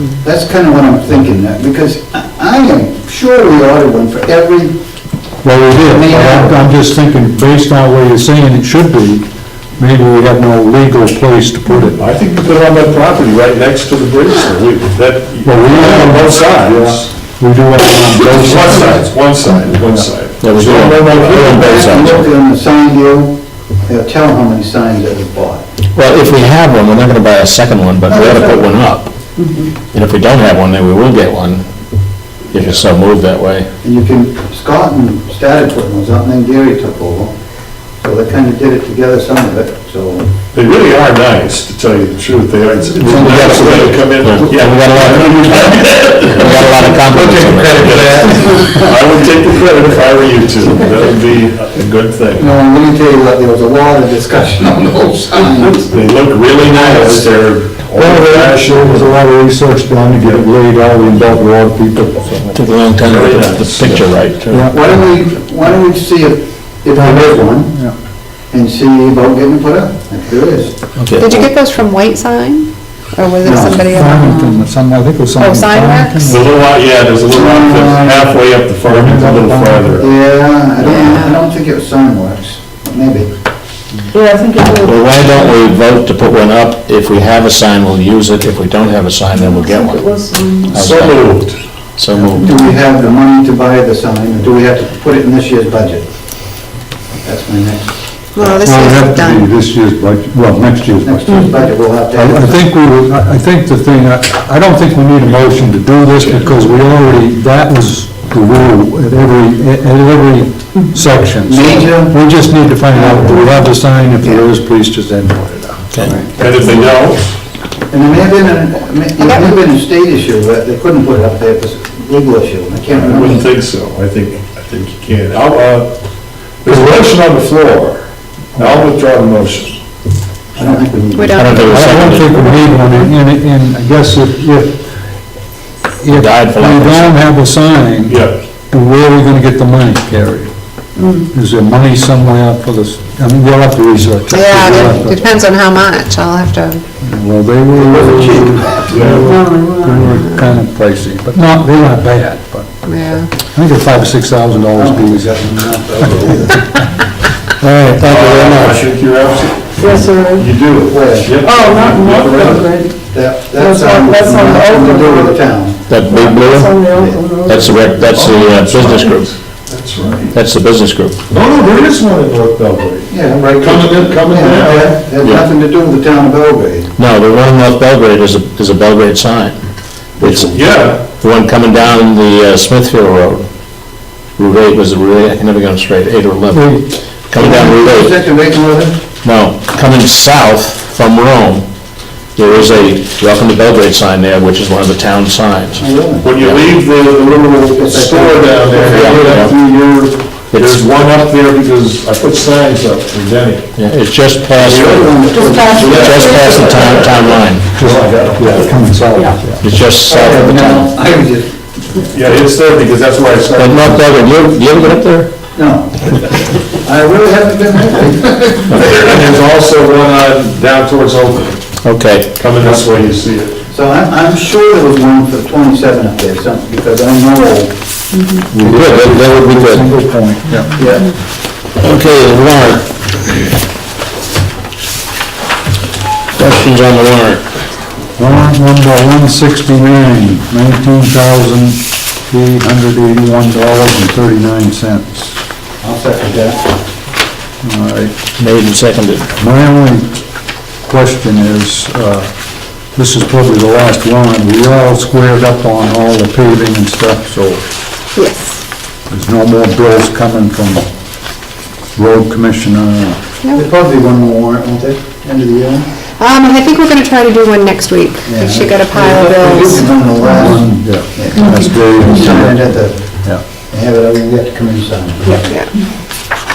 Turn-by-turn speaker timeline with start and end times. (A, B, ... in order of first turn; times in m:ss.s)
0:00.2-0:04.8 A
0:05.4-0:12.0 B
0:05.8-0:06.7 A
0:11.9-0:17.1 C
0:15.4-0:19.3 B
0:18.2-0:21.9 C
0:19.8-0:20.0 B
0:20.4-0:22.3 D
0:21.1-0:25.6 A
0:25.9-0:29.1 D
0:28.1-0:28.8 A
0:29.9-0:31.6 D
0:32.5-0:33.7 D
0:33.8-0:37.3 A
0:38.0-0:40.3 A
0:40.5-0:46.8 C
0:43.0-0:43.9 B
0:43.0-0:48.1 D
0:47.0-0:48.9 A
0:47.7-0:52.5 C
0:52.4-0:55.9 A
0:55.9-0:59.2 C
0:56.8-0:57.2 B
0:57.9-1:02.6 B
1:02.5-1:04.4 D
1:03.0-1:04.7 C
1:04.5-1:04.8 B
1:04.7-1:07.7 A
1:06.9-1:07.9 B
1:08.5-1:10.8 A
1:11.0-1:11.5 D
1:11.2-1:14.6 E
1:13.4-1:13.8 A
1:13.8-1:16.5 B
1:15.4-1:16.2 E
1:16.2-1:20.1 C
1:17.3-1:18.3 B
1:17.4-1:17.8 A
1:18.8-1:20.1 B
1:20.0-1:23.3 A
1:20.8-1:21.4 E
1:24.1-1:25.6 F
1:24.6-1:32.6 D
1:29.6-1:30.8 F
1:30.7-1:31.6 C
1:32.1-1:36.1 A
1:37.2-1:38.5 A
1:38.3-1:39.4 E
1:38.6-1:41.2 B
1:41.0-1:42.7 A
1:41.3-1:41.6 F
1:42.1-1:56.1 B
1:51.4-1:52.2 A
1:52.9-1:53.5 A
1:55.9-1:56.2 D
1:56.0-1:56.3 A
1:56.3-1:57.3 C
1:57.9-2:03.5 A
1:59.2-1:59.6 E
2:02.9-2:06.0 C
2:06.6-2:09.8 C
2:10.6-2:11.7 A
2:11.1-2:11.6 E
2:11.4-2:12.5 D
2:11.6-2:14.8 B
2:16.0-2:20.5 B
2:16.1-2:17.2 D
2:18.1-2:18.4 C
2:21.0-2:21.3 F
2:21.3-2:25.2 B
2:24.3-2:26.8 E
2:27.0-2:32.8 B
2:27.8-2:28.6 A
2:28.9-2:29.3 C
2:29.2-2:30.0 F
2:32.8-2:33.3 E
2:33.4-2:35.4 B
2:34.7-2:36.6 A
2:36.0-2:36.8 B
2:37.5-2:38.9 B
2:38.0-2:42.7 C
2:39.8-2:40.5 F
2:40.8-2:41.4 A
2:41.4-2:43.0 F
2:43.1-2:48.0 A
2:43.5-2:45.4 F
2:45.9-2:46.9 D
2:46.5-2:47.9 F
2:47.4-2:49.3 D
2:48.0-2:50.4 C
2:50.3-2:51.2 D
2:51.3-2:55.0 C
2:53.1-2:56.9 A
2:55.2-2:55.4 D
2:57.0-2:59.6 D
3:00.2-3:03.5 D
3:00.4-3:01.0 C
3:04.4-3:08.2 D
3:06.5-3:06.8 B
3:07.4-3:09.0 A
3:09.2-3:11.7 D
3:12.4-3:16.7 D
3:15.8-3:16.2 A
3:16.2-3:23.7 C
3:17.8-3:19.4 A
3:18.8-3:19.5 D
3:20.5-3:20.8 D
3:23.8-3:25.3 D
3:24.6-3:26.7 A
3:25.3-3:26.6 F
3:25.5-3:28.8 C
3:25.8-3:27.6 D
3:27.8-3:29.6 B
3:29.6-3:30.9 D
3:30.0-3:31.7 A
3:32.1-3:34.3 C
3:33.5-3:35.3 D
3:35.5-3:39.0 A
3:38.7-3:41.8 C
3:41.8-3:42.3 D
3:42.3-3:43.6 C
3:43.7-3:47.8 A
3:48.5-3:50.7 B
3:48.6-3:49.9 D
3:50.7-3:51.1 A
3:51.8-3:52.9 D
3:56.3-3:57.4 D
3:58.2-4:05.4 B
4:05.8-4:06.7 A
4:07.6-4:08.1 B
4:08.4-4:09.3 D
4:09.4-4:10.2 B
4:10.8-4:12.3 B
4:12.9-4:17.6 B
4:18.1-4:18.6 E
4:19.1-4:20.9 B
4:21.9-4:23.2 B
4:23.4-4:23.7 E
4:23.5-4:25.9 A
4:26.2-4:30.1 E
4:28.2-4:35.5 A
4:30.2-4:33.4 B
4:35.2-4:35.7 E